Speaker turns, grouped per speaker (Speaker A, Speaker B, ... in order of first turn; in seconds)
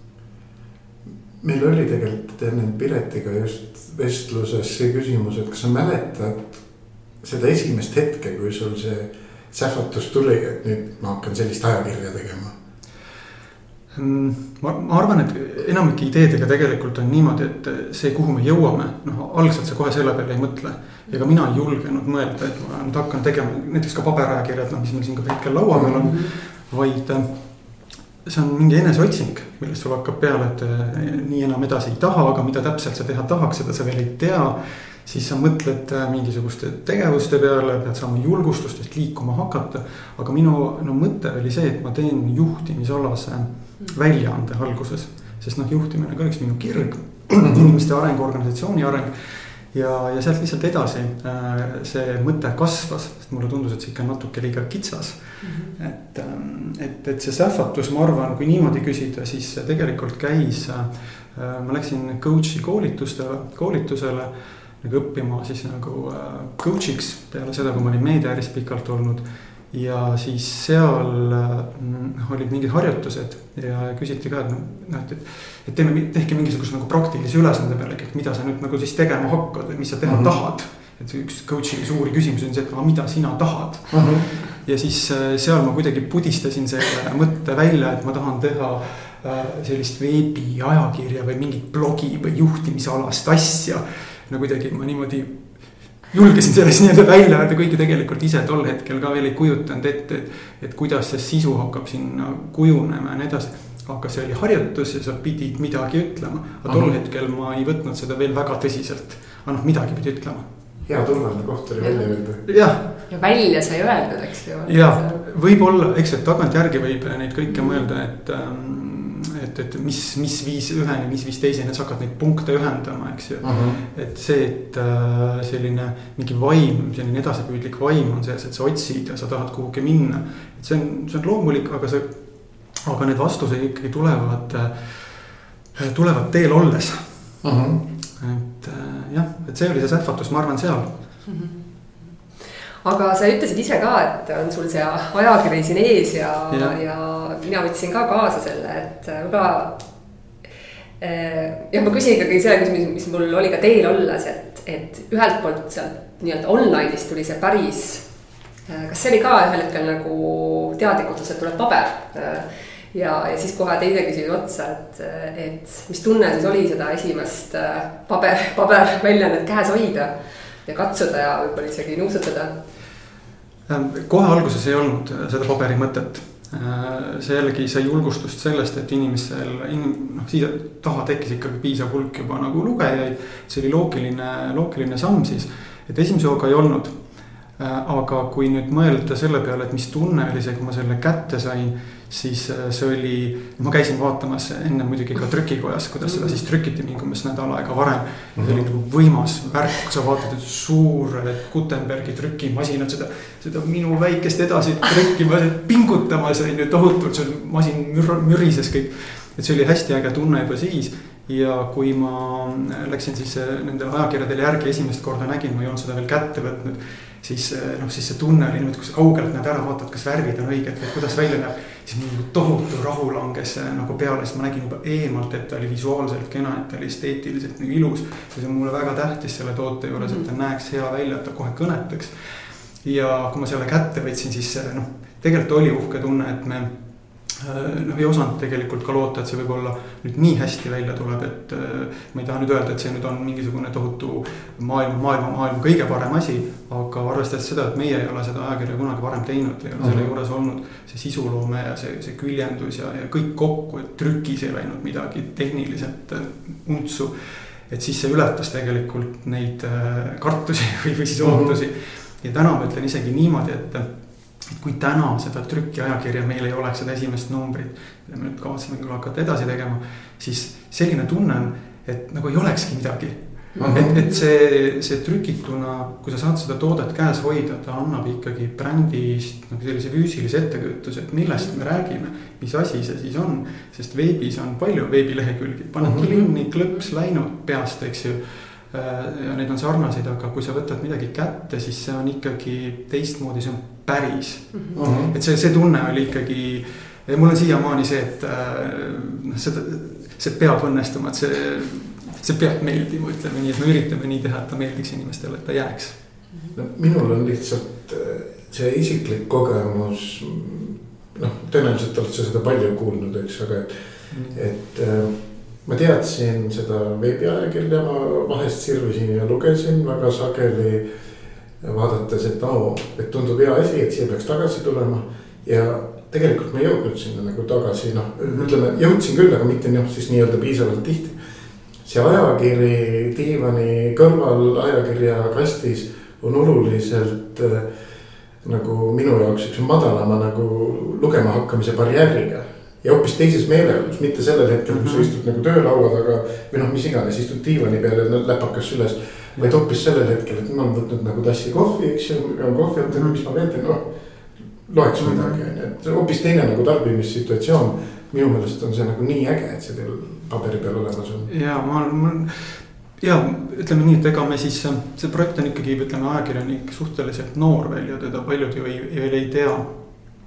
Speaker A: 1.4-6.6, 7.2-12.5, 25.7-26.1, 80.0-80.3, 83.9-84.2, 106.7-106.9, 110.9-112.4, 123.4-123.8, 137.4-137.8, 198.4-198.7, 249.8-250.1, 261.2-261.5, 273.6-273.9, 285.8-286.1, 294.8-295.1, 306.5-321.0, 321.6-331.2, 331.8-337.8, 338.4-353.9, 354.5-361.3
Speaker B: 13.9-110.5, 112.5-112.9, 114.7-137.4, 138.2-140.9, 146.5-146.8, 173.7-263.9, 264.4-306.0, 314.1-314.4, 344.7-345.1, 352.9-353.2, 355.0-355.4, 361.3-369.8
Speaker C: 26.1-26.3, 55.4-55.8, 111.8-112.1, 113.1-115.2, 117.5-117.8, 141.3-141.6, 142.8-149.8, 151.0-158.1, 158.7-172.5, 196.1-196.4, 230.0-230.2, 273.5-274.2, 286.0-286.3, 294.5-294.8